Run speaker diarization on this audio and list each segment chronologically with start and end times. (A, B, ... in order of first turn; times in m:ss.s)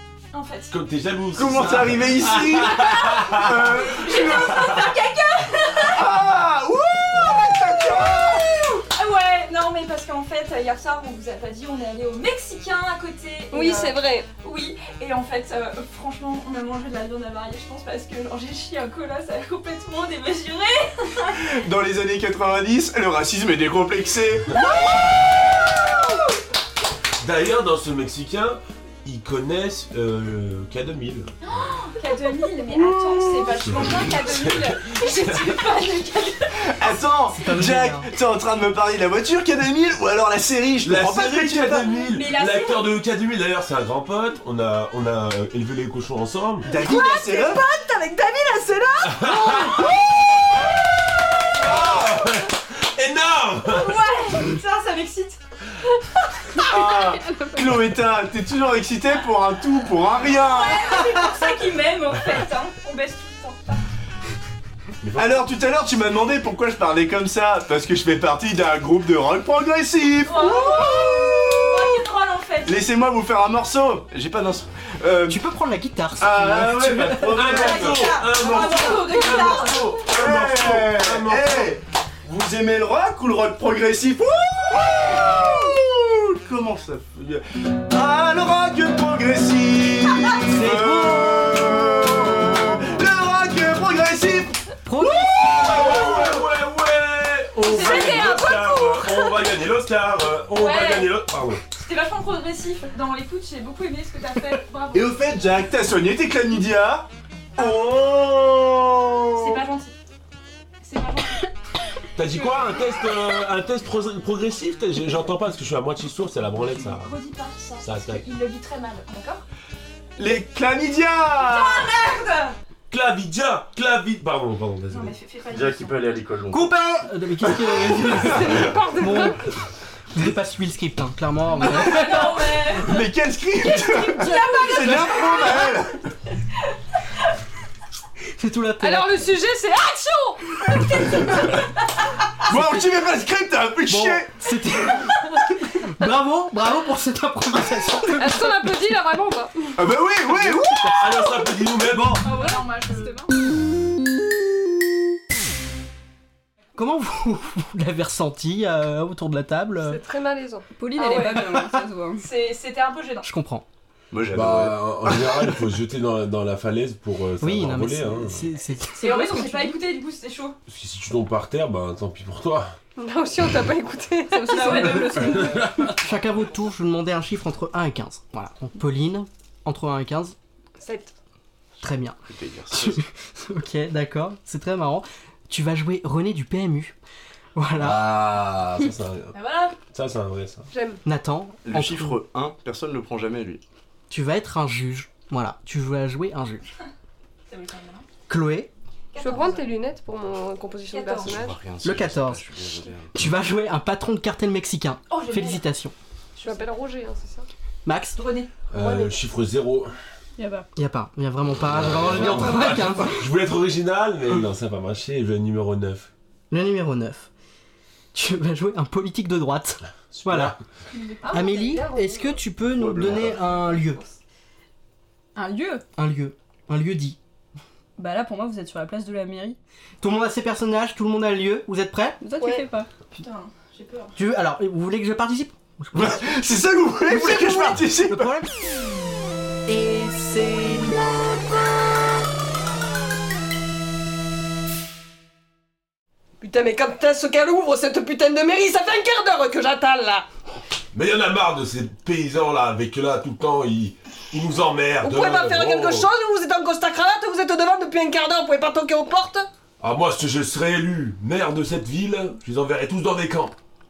0:00.3-0:00.7 A
0:00.7-0:03.7 B
0:01.3-0:04.8 C
0:03.7-0:06.0 A
0:04.5-0:04.8 B
0:05.9-0:08.6 C
0:08.8-0:21.4 A
0:13.5-0:14.3 D
0:21.4-0:24.6 C
0:27.2-0:31.3 B
0:31.4-0:36.7 A
0:32.8-0:33.5 D
0:33.6-0:35.6 B
0:36.6-0:41.9 C
0:37.3-0:38.1 E
0:40.8-0:46.7 B
0:42.0-0:42.9 A
0:46.6-0:47.6 C
0:46.8-0:49.6 D
0:49.0-0:49.9 B
0:51.5-0:54.0 B
0:53.7-0:55.4 A
0:56.6-1:01.1 C
0:56.7-0:57.8 F
1:00.4-1:03.8 A
1:05.0-1:05.4 B
1:05.2-1:12.0 C
1:10.2-1:12.8 A
1:12.6-1:15.4 C
1:15.3-1:17.5 E
1:16.2-1:18.2 C
1:17.1-1:21.8 B
1:17.4-1:20.0 A
1:18.4-1:19.1 E
1:20.0-1:36.3 C
1:30.4-1:31.6 E
1:34.8-1:35.4 E
1:35.4-1:41.6 B
1:37.6-1:38.5 A
1:37.7-1:39.4 D
1:40.6-1:41.2 A
1:41.7-1:45.1 A
1:44.9-1:49.6 C
1:47.6-1:47.9 A
1:49.4-1:49.9 A
1:50.8-1:51.4 A
1:52.2-1:57.1 B
1:56.6-1:59.4 A
1:57.8-1:58.2 B
2:00.2-2:01.9 C
2:01.4-2:02.5 A
2:02.9-2:05.1 B
2:04.9-2:06.0 A
2:05.5-2:06.7 C
2:06.5-2:09.4 E
2:07.5-2:08.6 C
2:08.1-2:09.4 D
2:10.1-2:12.4 E
2:11.5-2:13.0 A
2:12.8-2:16.0 C
2:13.6-2:15.8 A
2:18.4-2:19.2 E
2:18.8-2:20.8 D
2:22.5-2:22.9 E
2:22.5-2:24.4 C
2:23.9-2:28.3 E
2:28.1-2:29.8 D
2:29.8-2:31.0 C
2:30.4-2:31.0 E
2:30.9-2:32.3 B
2:32.2-2:33.2 F
2:32.2-2:33.3 A
2:36.8-2:40.0 E
2:39.8-2:41.4 D
2:40.8-2:42.3 F
2:41.0-2:41.5 A
2:42.2-2:43.3 A
2:43.2-2:43.6 E
2:44.1-2:45.6 C
2:44.3-2:48.4 B
2:47.4-2:49.8 E
2:49.0-2:50.6 A
2:50.7-2:52.7 B
2:53.0-2:55.1 D
2:54.3-2:55.7 F
2:54.5-2:55.5 A
2:55.2-2:55.9 B
2:55.8-3:00.4 E
3:00.8-3:01.1 D
3:01.8-3:02.2 E
3:02.3-3:03.0 C
3:02.7-3:07.0 E
3:07.6-3:08.0 E
3:07.8-3:09.4 B
3:09.3-3:09.7 A
3:09.9-3:10.7 B
3:10.7-3:11.0 D
3:11.0-3:12.2 E
3:11.6-3:13.6 C
3:14.1-3:16.6 E
3:17.5-3:18.0 A
3:18.3-3:18.7 E
3:19.1-3:19.7 A
3:19.2-3:21.6 D
3:20.9-3:21.3 A
3:21.2-3:23.1 C
3:21.8-3:22.4 E
3:23.1-3:25.9 E
3:25.1-3:25.6 A
3:26.4-3:26.7 A
3:26.4-3:27.5 D
3:27.8-3:28.2 E
3:28.2-3:28.5 A
3:28.7-3:29.9 B
3:30.4-3:30.6 F
3:30.8-3:33.3 E
3:31.6-3:36.1 B
3:36.5-3:37.3 E
3:38.1-3:40.6 E
3:40.1-3:40.6 B
3:40.9-3:42.0 F
3:41.3-3:44.0 E
3:41.5-3:41.9 D
3:42.7-3:43.4 C
3:45.3-3:45.8 F
3:46.0-3:47.2 E
3:48.0-3:49.6 F
3:50.0-3:52.2 E
3:52.2-3:52.9 F
3:53.1-3:54.1 A
3:54.2-3:56.3 E
3:55.9-3:58.3 C
3:57.1-3:58.5 E
3:59.7-4:01.0 E
4:06.4-4:10.2 D
4:10.9-4:16.1 B
4:15.0-4:19.5 D
4:19.8-4:23.5 B